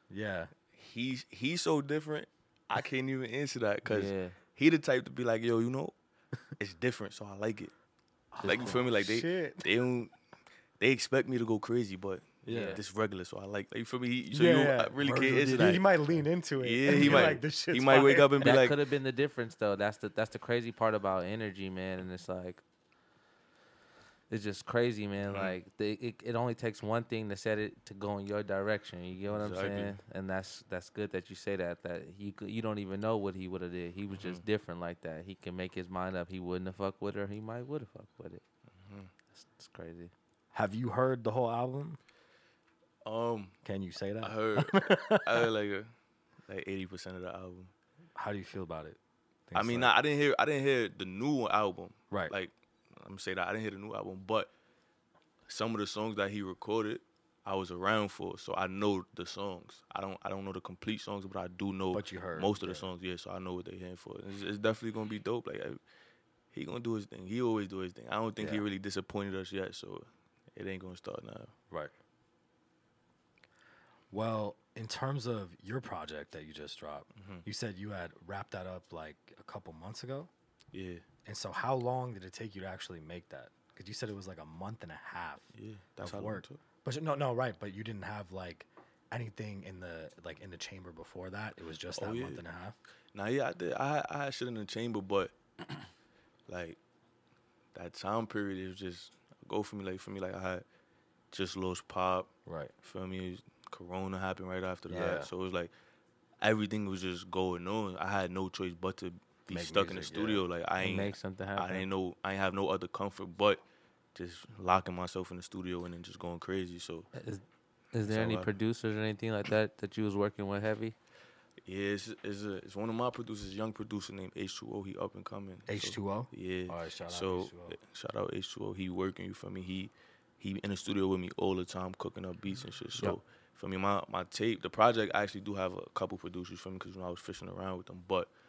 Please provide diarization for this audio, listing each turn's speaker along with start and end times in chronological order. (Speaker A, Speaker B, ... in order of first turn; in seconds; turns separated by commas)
Speaker A: 0.1-0.5, Speaker B: 0.7-5.9, Speaker C: 3.9-4.3, Speaker B: 6.6-7.7, Speaker A: 8.3-9.7, Speaker C: 8.4-8.8, Speaker B: 8.4-10.1, Speaker B: 10.8-18.8, Speaker A: 12.4-12.8, Speaker C: 12.5-12.8, Speaker A: 14.3-18.6, Speaker C: 16.9-17.4, Speaker C: 18.4-22.6, Speaker C: 24.3-38.4, Speaker B: 25.2-25.6, Speaker B: 29.3-30.0, Speaker B: 34.2-34.4, Speaker B: 38.8-39.1, Speaker C: 39.3-40.1, Speaker A: 40.5-42.0, Speaker B: 43.0-43.6, Speaker A: 43.6-45.5, Speaker B: 44.2-45.9, Speaker B: 46.5-47.7, Speaker A: 48.1-49.9, Speaker B: 49.5-54.5, Speaker B: 55.5-65.8, Speaker A: 61.9-62.9, Speaker B: 66.5-71.5, Speaker A: 68.4-68.6, Speaker A: 74.1-80.3, Speaker B: 77.2-77.5, Speaker B: 80.7-81.0, Speaker A: 81.2-85.5, Speaker B: 85.5-86.6, Speaker A: 86.0-92.8, Speaker B: 91.9-92.4, Speaker B: 93.1-95.3, Speaker B: 96.5-96.8, Speaker B: 97.7-100.6, Speaker B: 101.3-102.3, Speaker A: 102.5-102.7, Speaker B: 102.8-105.7, Speaker A: 104.9-105.3, Speaker B: 106.4-113.6, Speaker A: 109.5-110.4, Speaker C: 110.8-111.8, Speaker B: 114.1-117.1, Speaker C: 117.1-120.9, Speaker B: 118.0-118.5, Speaker B: 121.6-138.3, Speaker A: 125.7-127.8